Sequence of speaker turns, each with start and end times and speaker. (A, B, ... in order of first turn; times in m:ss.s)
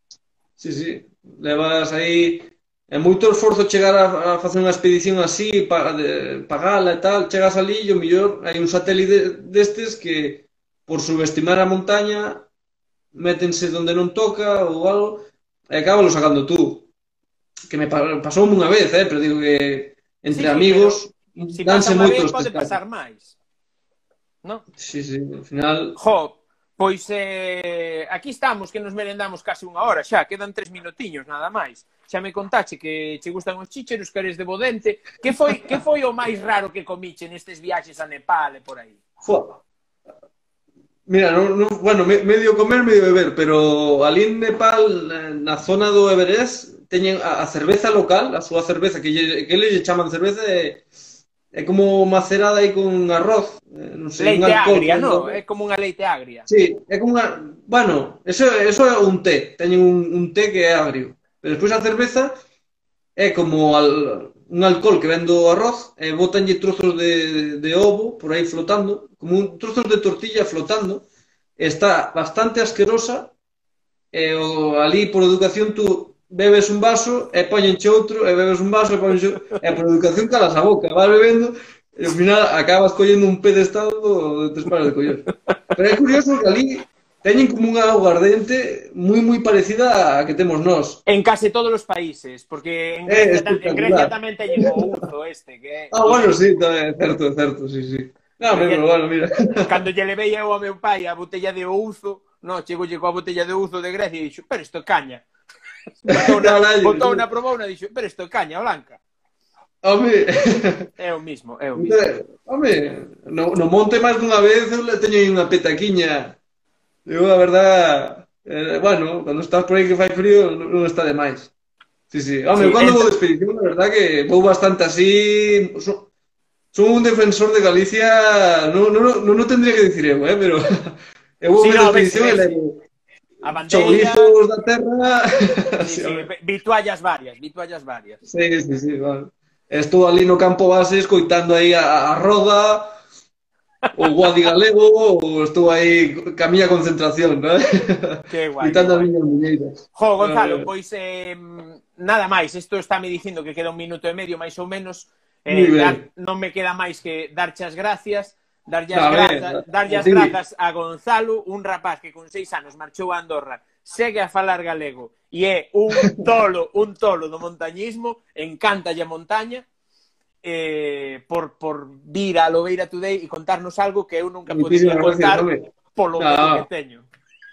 0:00.6-0:12.5 A
0:13.1-0:16.9 A
0:17.7-0:22.8 A
0:20.3-0:23.3 B
0:24.8-0:26.0 A
0:26.0-0:39.0 B
0:39.2-0:39.6 A
0:41.1-0:50.8 A
0:51.5-0:55.4 A
0:54.2-0:56.5 B
0:56.5-1:02.3 A
1:03.2-1:11.0 A
1:11.6-1:13.3 A
1:14.1-1:31.0 A
1:31.0-1:36.4 B
1:33.1-1:34.8 A
1:35.9-1:39.7 A
1:38.5-1:38.8 B
1:39.6-1:45.2 B
1:46.0-1:49.0 B
1:46.1-1:47.2 A
1:49.8-1:50.9 A
1:51.0-1:52.1 B
1:51.7-1:56.4 A
1:57.0-2:01.5 A
2:02.1-2:06.1 A
2:02.5-2:03.1 B
2:06.7-2:12.8 A
2:11.6-2:12.6 B
2:13.4-2:14.4 B
2:13.7-2:16.3 A
2:15.8-2:18.2 B
2:18.2-2:23.0 A
2:23.9-2:30.7 A
2:28.3-2:29.1 B
2:29.9-2:49.6 B
2:35.5-2:36.0 A
2:38.9-2:40.3 A
2:50.4-2:57.1 B
2:54.5-2:56.7 A